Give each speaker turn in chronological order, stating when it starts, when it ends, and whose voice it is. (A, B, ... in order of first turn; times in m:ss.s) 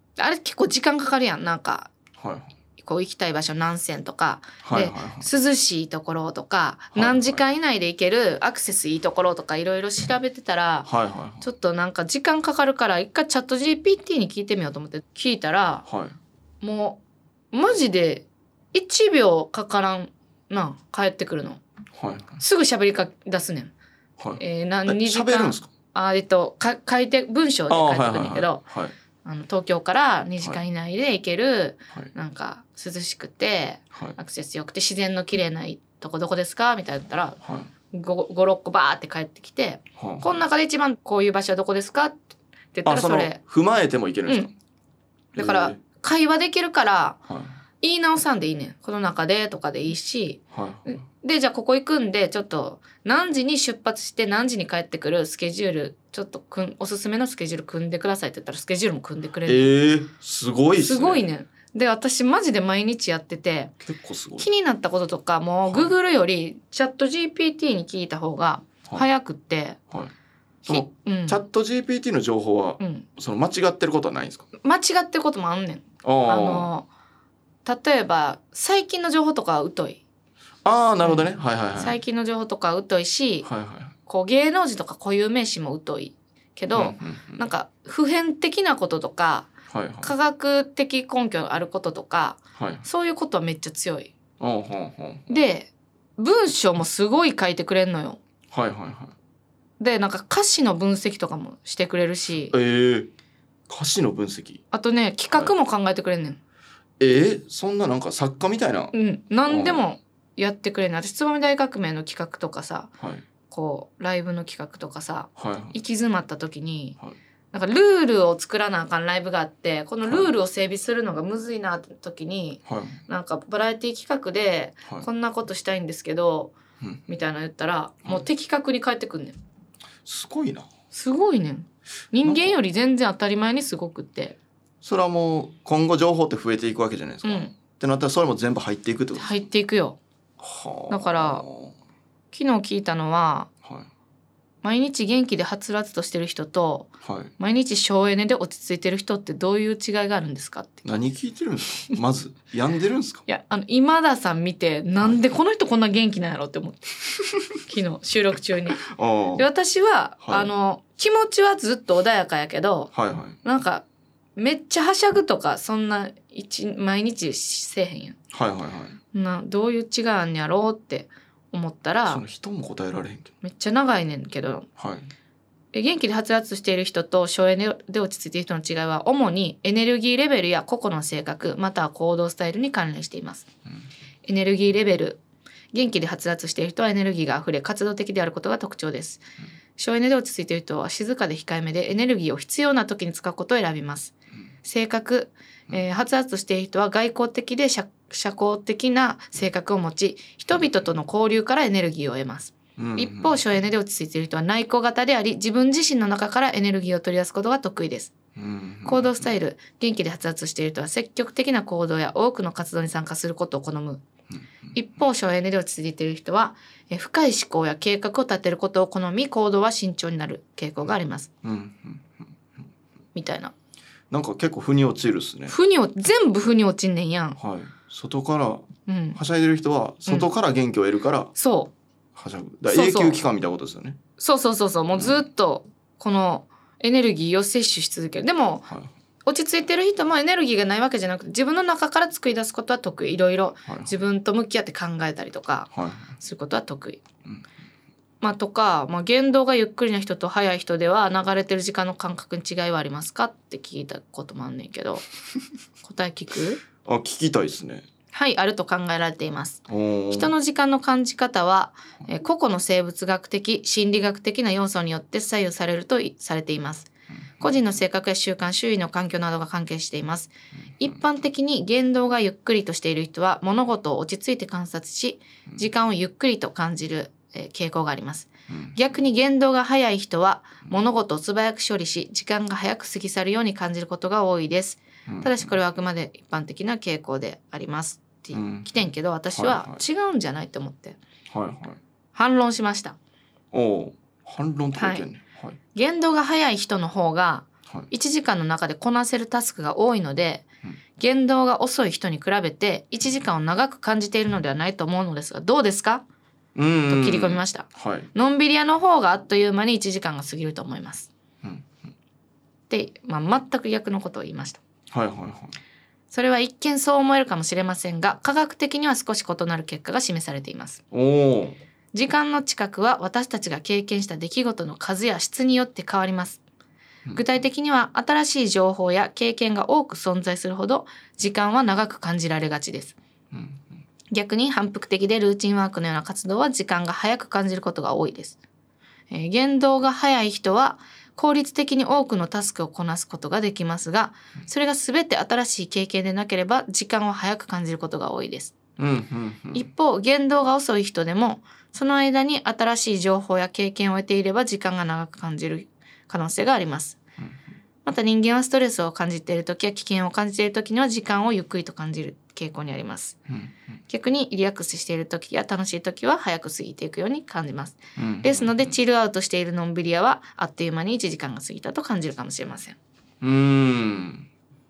0:00.2-0:01.9 A
0:02.2-0:02.5 B
0:02.8-0:10.9 A
0:04.6-0:05.3 B
0:06.9-0:07.4 B
0:10.8-0:11.4 B
0:11.4-0:15.8 A
0:15.9-0:16.2 B
0:16.6-0:17.0 A
0:17.5-0:21.6 A
0:21.9-0:22.4 B
0:22.4-0:23.7 A
0:24.2-0:25.7 B
0:24.4-0:28.6 A
0:27.7-0:28.9 B
0:29.2-0:37.4 A
0:37.4-0:37.7 B
0:37.9-0:42.2 A
0:40.0-0:40.3 B
0:42.7-0:43.4 A
0:42.8-0:44.5 B
0:45.3-0:45.8 B
0:45.4-0:47.2 A
0:47.8-0:59.7 A
0:50.5-0:51.0 B
0:59.4-1:01.3 B
1:00.8-1:03.7 A
1:03.8-1:04.5 B
1:04.4-1:09.8 A
1:10.6-1:14.4 B
1:10.6-1:11.4 A
1:12.8-1:13.0 A
1:14.6-1:16.9 A
1:16.0-1:16.7 B
1:17.6-1:20.0 A
1:20.6-1:22.0 B
1:21.0-1:23.5 A
1:23.4-1:23.9 B
1:24.0-1:29.5 A
1:26.7-1:27.4 B
1:29.7-1:30.1 B
1:30.0-1:34.1 A
1:32.6-1:32.8 B
1:34.4-1:35.3 B
1:35.3-1:38.2 A
1:38.5-1:39.1 B
1:39.8-1:42.5 A
1:42.5-1:43.1 B
1:43.7-1:44.6 B
1:44.7-1:46.4 A
1:47.0-1:48.9 B
1:48.9-1:52.9 A
1:49.5-1:49.8 B
1:53.5-1:57.0 A
1:55.4-1:55.8 B
1:57.5-2:06.5 A
2:00.0-2:00.3 B
2:02.6-2:03.0 B
2:07.1-2:09.4 A
2:10.0-2:10.7 B
2:10.9-2:14.4 A
2:12.2-2:12.6 B
2:14.8-2:19.4 B
2:17.2-2:17.5 A
2:19.2-2:20.0 A
2:20.4-2:21.7 B
2:20.9-2:21.4 A
2:22.3-2:23.5 A
2:24.6-2:30.9 A
2:27.0-2:27.3 B
2:30.8-2:33.2 B
2:33.3-2:36.9 A
2:37.6-2:42.9 A
2:38.8-2:39.4 B
2:40.2-2:40.5 B
2:42.9-2:43.4 B
2:43.4-2:48.2 A
2:48.3-2:49.0 B
2:49.1-2:52.2 A
2:52.1-2:53.3 B
2:53.4-2:54.7 A
2:54.8-2:55.1 B
2:55.7-3:03.5 A
3:04.2-3:05.2 A
3:05.7-3:09.2 A
3:09.8-3:28.1 A
3:22.8-3:23.4 B
3:28.4-3:29.3 B
3:28.8-3:34.0 A
3:34.7-3:41.3 A
3:41.4-3:42.2 B
3:43.1-3:43.5 A
3:44.1-3:45.6 B
3:45.5-3:47.4 A
3:47.4-3:51.3 B
3:48.9-3:49.2 A
3:51.4-3:51.7 A
3:52.1-3:54.0 B
3:52.7-3:53.2 A
3:54.2-3:58.7 A
3:54.9-3:55.2 B
3:59.2-4:07.0 A
4:03.6-4:04.0 B
4:05.7-4:06.1 B
4:08.2-4:15.0 A
4:15.8-4:16.6 A
4:16.8-4:17.8 B
4:18.1-4:51.0 A
4:19.7-4:20.3 B
4:38.5-4:38.7 B
4:45.1-4:45.5 B
4:48.3-4:48.7 B
4:49.3-4:49.8 B
4:51.3-4:51.8 B
4:52.1-4:53.0 A
4:53.5-4:55.6 B
4:54.8-4:55.1 A
4:55.7-5:00.4 A
5:01.0-5:06.0 A
5:06.5-5:08.1 B
5:06.9-5:11.1 A
5:11.4-5:11.7 B
5:12.7-5:14.6 A
5:14.9-5:15.6 B
5:16.1-5:20.8 A
5:20.9-5:21.6 B
5:21.9-5:26.4 A
5:27.1-5:33.0 A
5:33.3-5:33.6 B
5:34.1-5:38.4 A
5:39.1-5:48.6 A
5:48.8-5:49.7 B
5:49.5-5:57.0 A
5:57.8-6:03.2 A
6:03.3-6:03.5 B
6:03.9-6:12.8 A
6:08.0-6:08.7 B
6:13.2-6:14.3 B